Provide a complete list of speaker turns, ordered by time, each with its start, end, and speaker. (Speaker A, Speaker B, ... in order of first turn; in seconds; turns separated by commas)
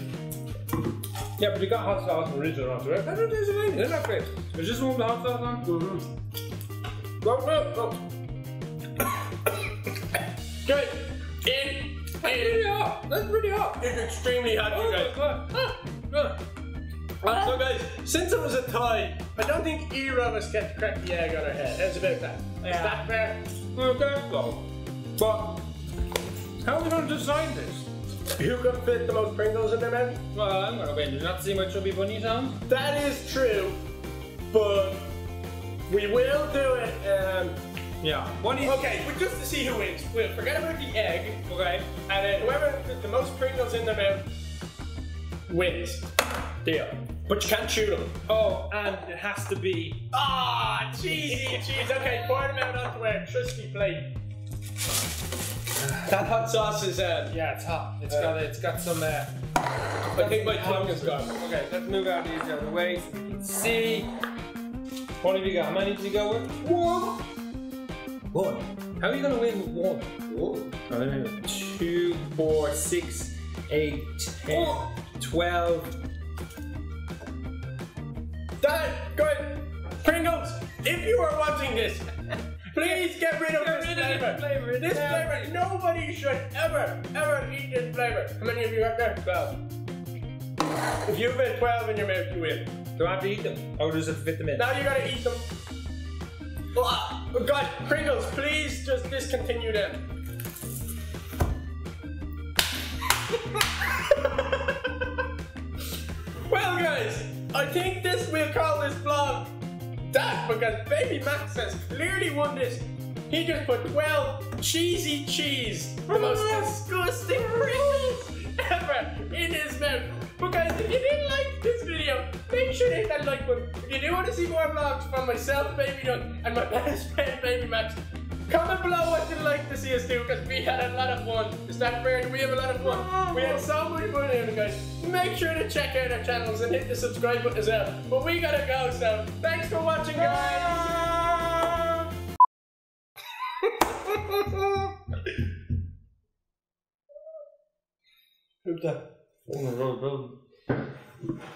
Speaker A: 1.4-5.7, Speaker B: 5.6-6.0, Speaker A: 7.2-8.0, Speaker B: 10.6-12.7, Speaker A: 12.2-13.9, Speaker B: 13.8-15.2, Speaker A: 14.7-16.4, Speaker A: 17.2-17.6, Speaker B: 17.2-23.4, Speaker A: 22.6-23.1, Speaker A: 23.7-24.6, Speaker A: 25.2-25.6, Speaker A: 26.6-27.9, Speaker B: 28.4-30.2, Speaker A: 30.3-32.6, Speaker B: 32.7-33.8, Speaker B: 34.5-35.1, Speaker B: 35.9-37.6, Speaker A: 38.0-39.0, Speaker B: 38.6-41.4, Speaker A: 41.5-41.9, Speaker B: 42.1-44.3, Speaker B: 45.5-46.0, Speaker A: 46.6-47.0, Speaker B: 47.3-48.1, Speaker A: 48.3-50.0, Speaker B: 50.1-54.1, Speaker A: 51.3-52.5, Speaker B: 55.9-57.3, Speaker A: 57.3-59.3, Speaker B: 58.1-58.4, Speaker B: 60.1-61.5, Speaker A: 60.1-64.1, Speaker A: 65.2-67.2, Speaker A: 68.3-76.0, Speaker B: 70.3-70.7, Speaker B: 74.5-74.8, Speaker B: 78.6-82.1, Speaker B: 82.7-89.6, Speaker A: 82.8-85.5, Speaker B: 91.0-92.7, Speaker A: 93.0-94.7, Speaker B: 94.5-95.5, Speaker B: 96.8-100.0, Speaker B: 103.8-104.8, Speaker B: 106.5-109.5, Speaker B: 110.0-141.0, Speaker A: 116.1-116.8, Speaker A: 117.3-118.1, Speaker A: 132.8-133.7, Speaker A: 140.2-142.0, Speaker B: 148.7-149.0, Speaker A: 149.5-150.4